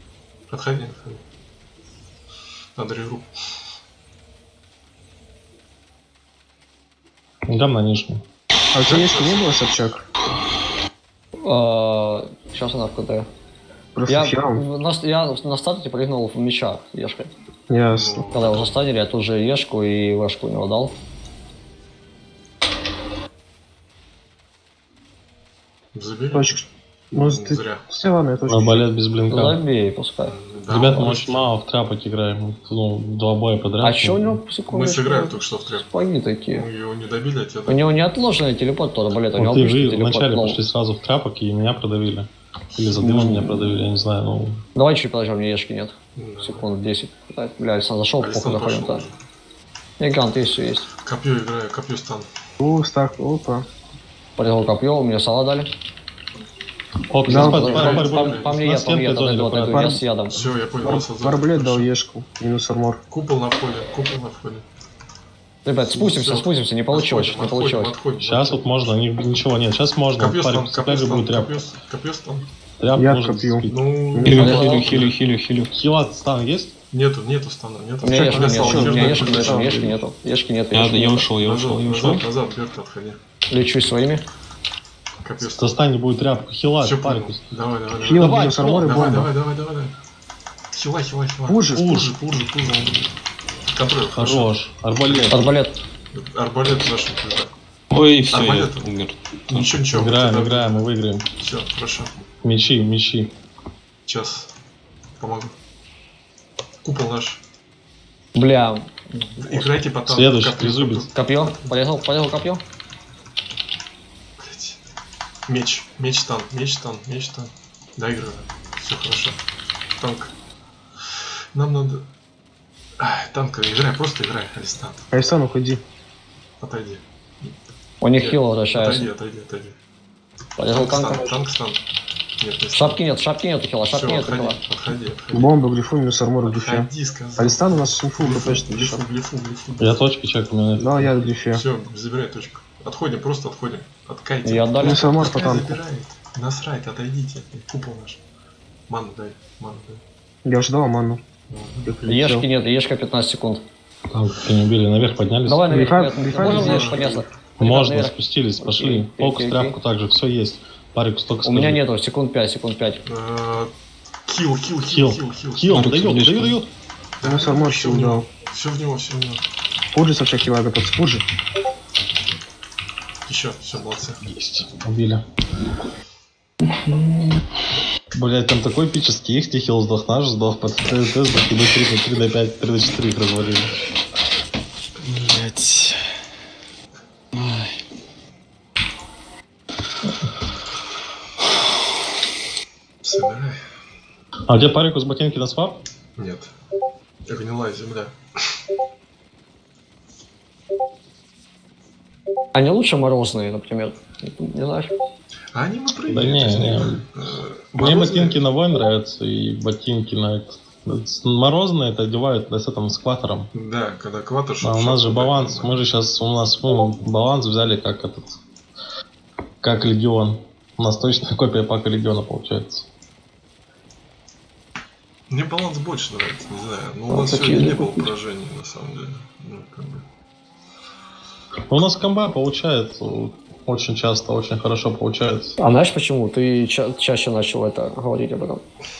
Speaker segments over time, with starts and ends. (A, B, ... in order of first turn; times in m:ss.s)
0:00.5-0:01.2 A
0:02.8-0:03.3 A
0:07.5-0:08.2 B
0:08.7-0:10.0 C
0:08.8-0:09.6 A
0:11.4-0:13.3 D
0:13.9-0:14.6 C
0:14.1-0:17.3 D
0:17.7-0:18.3 C
0:17.9-0:18.8 A
0:18.3-0:21.0 D
0:25.9-0:26.6 A
0:26.3-0:28.8 C
0:27.2-0:27.8 A
0:28.5-0:29.6 B
0:29.3-0:31.2 D
0:30.2-0:31.5 A
0:30.7-0:34.4 B
0:33.8-0:36.7 D
0:34.7-0:35.9 A
0:36.5-0:37.9 A
0:37.7-0:40.6 D
0:39.3-0:44.6 B
0:43.0-0:43.9 D
0:44.7-0:49.0 D
0:46.2-0:46.7 A
0:48.2-0:49.2 A
0:50.0-0:50.9 D
0:51.0-0:52.3 A
0:52.6-0:53.6 C
0:54.4-0:55.7 D
0:57.1-0:59.8 B
0:57.2-1:00.4 D
0:57.3-0:57.7 C
0:57.3-0:58.6 A
0:59.7-1:03.0 C
1:00.3-1:01.9 A
1:03.1-1:04.6 A
1:05.6-1:08.1 D
1:05.8-1:09.0 A
1:08.2-1:11.6 B
1:10.2-1:12.5 A
1:12.8-1:13.9 B
1:12.9-1:14.5 C
1:13.6-1:15.2 A
1:14.2-1:15.0 D
1:14.2-1:15.7 E
1:15.7-1:16.7 B
1:16.9-1:19.7 A
1:18.0-1:21.3 D
1:18.1-1:20.0 C
1:20.7-1:22.3 E
1:21.4-1:23.2 A
1:23.5-1:24.2 D
1:25.2-1:25.8 A
1:25.4-1:27.4 B
1:26.8-1:29.9 A
1:28.0-1:29.3 C
1:28.2-1:29.2 B
1:30.7-1:33.1 A
1:31.5-1:31.9 C
1:31.8-1:32.2 B
1:33.7-1:34.5 A
1:34.1-1:35.5 B
1:35.0-1:35.5 A
1:35.3-1:35.7 D
1:36.1-1:37.5 A
1:37.9-1:39.8 E
1:38.3-1:38.9 A
1:39.5-1:40.9 A
1:39.9-1:41.3 B
1:41.4-1:42.1 A
1:42.4-1:43.3 B
1:44.0-1:44.5 A
1:45.2-1:45.5 A
1:46.8-1:47.4 A
1:48.3-1:49.8 D
1:49.2-1:51.7 A
1:50.0-1:51.1 B
1:51.1-1:52.6 D
1:54.4-1:54.8 A
1:55.5-1:59.4 A
2:00.0-2:00.3 A
2:01.5-2:02.0 A
2:03.0-2:05.0 A
2:05.1-2:05.8 C
2:06.6-2:07.5 A
2:08.0-2:09.1 D
2:08.1-2:09.8 A
2:10.6-2:11.4 D
2:10.7-2:11.8 A
2:12.4-2:13.0 A
2:12.7-2:14.6 D
2:13.9-2:15.5 A
2:15.3-2:19.0 C
2:16.4-2:20.0 A
2:19.8-2:21.1 B
2:20.8-2:21.6 C
2:21.5-2:28.2 A
2:24.4-2:25.1 D
2:24.8-2:25.8 C
2:28.9-2:30.0 A
2:30.4-2:31.2 C
2:31.5-2:32.0 A
2:31.8-2:32.5 C
2:32.1-2:33.6 D
2:34.1-2:36.0 B
2:35.4-2:39.8 D
2:35.7-2:37.2 C
2:36.3-2:37.2 A
2:37.6-2:41.8 B
2:41.4-2:43.0 D
2:43.0-2:43.7 A
2:44.2-2:46.3 A
2:44.9-2:46.7 B
2:45.7-2:46.6 E
2:47.2-2:49.4 A
2:47.2-2:48.3 C
2:49.9-2:51.2 C
2:53.2-2:54.2 A
2:54.2-2:55.2 B
2:56.7-2:57.3 D
2:58.1-3:03.7 B
3:05.0-3:06.0 E
3:07.3-3:07.8 E
3:13.0-3:13.6 A
3:14.5-3:15.8 B
3:16.2-3:16.5 A
3:17.3-3:18.6 A
3:22.5-3:24.9 D
3:25.5-3:28.4 A
3:26.1-3:27.1 B
3:27.8-3:33.5 B
3:33.5-3:35.8 A
3:34.6-3:38.4 B
3:39.6-3:42.8 B
3:45.3-3:50.0 A
3:47.1-3:48.1 D
3:51.7-3:55.6 B
3:55.6-3:58.6 D